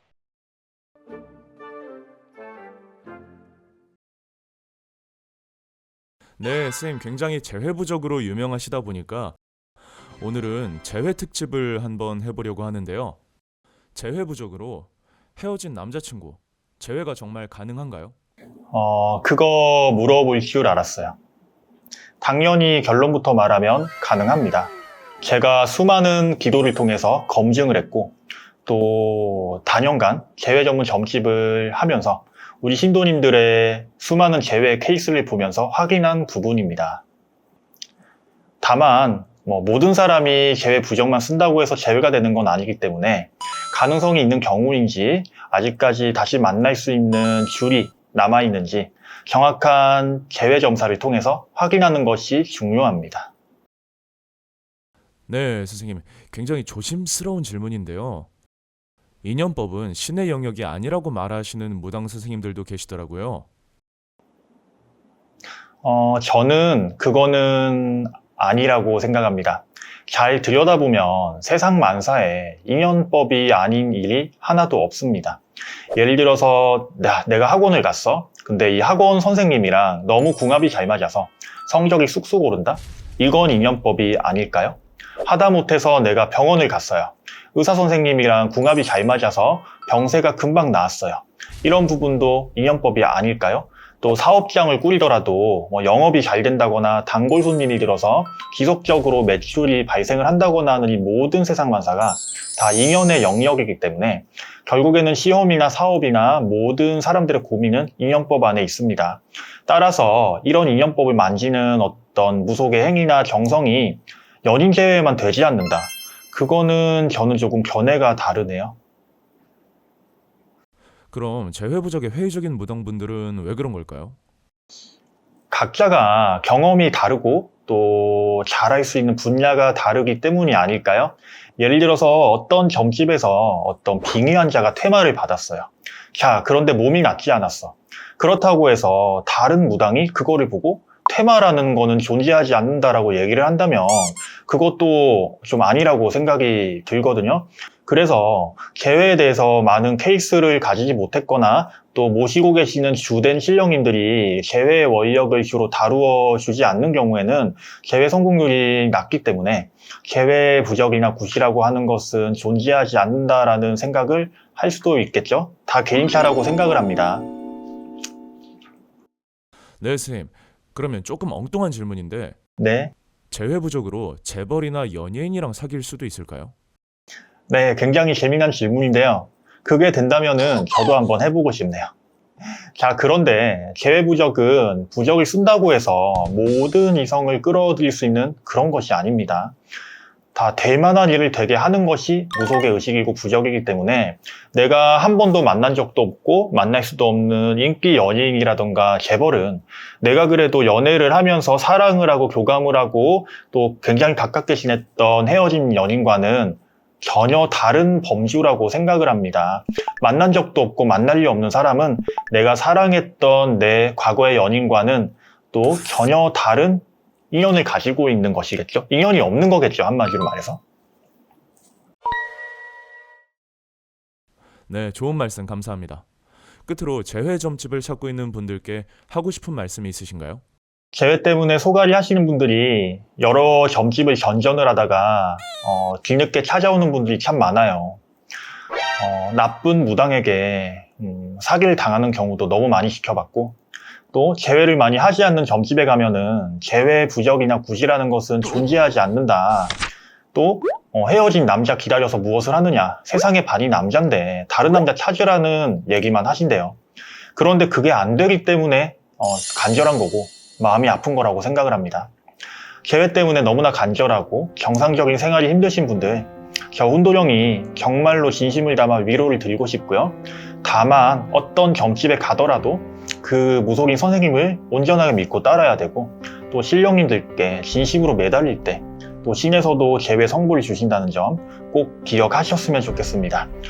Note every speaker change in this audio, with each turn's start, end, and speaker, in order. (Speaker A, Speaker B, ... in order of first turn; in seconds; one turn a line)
Speaker A: 6.4-9.4
Speaker A: 10.2-13.2
Speaker A: 13.9-18.1
Speaker B: 18.7-21.2
Speaker B: 22.2-37.0
Speaker B: 38.6-53.3
Speaker A: 55.3-58.3
Speaker A: 59.2-63.5
Speaker B: 65.8-75.4
Speaker B: 75.9-118.8
Speaker A: 121.1-124.2
Speaker B: 125.5-167.3
Speaker A: 169.8-172.4
Speaker B: 172.6-172.9
Speaker A: 173.3-176.5
Speaker B: 177.5-181.9
Speaker B: 182.7-189.6
Speaker B: 190.3-220.6
Speaker A: 224.7-226.1
Speaker A: 226.7-230.4
Speaker B: 230.9-238.0
Speaker B: 239.0-243.6
Speaker B: 244.1-249.8
Speaker B: 250.3-256.8
Speaker B: 257.4-262.1
Speaker B: 262.8-283.5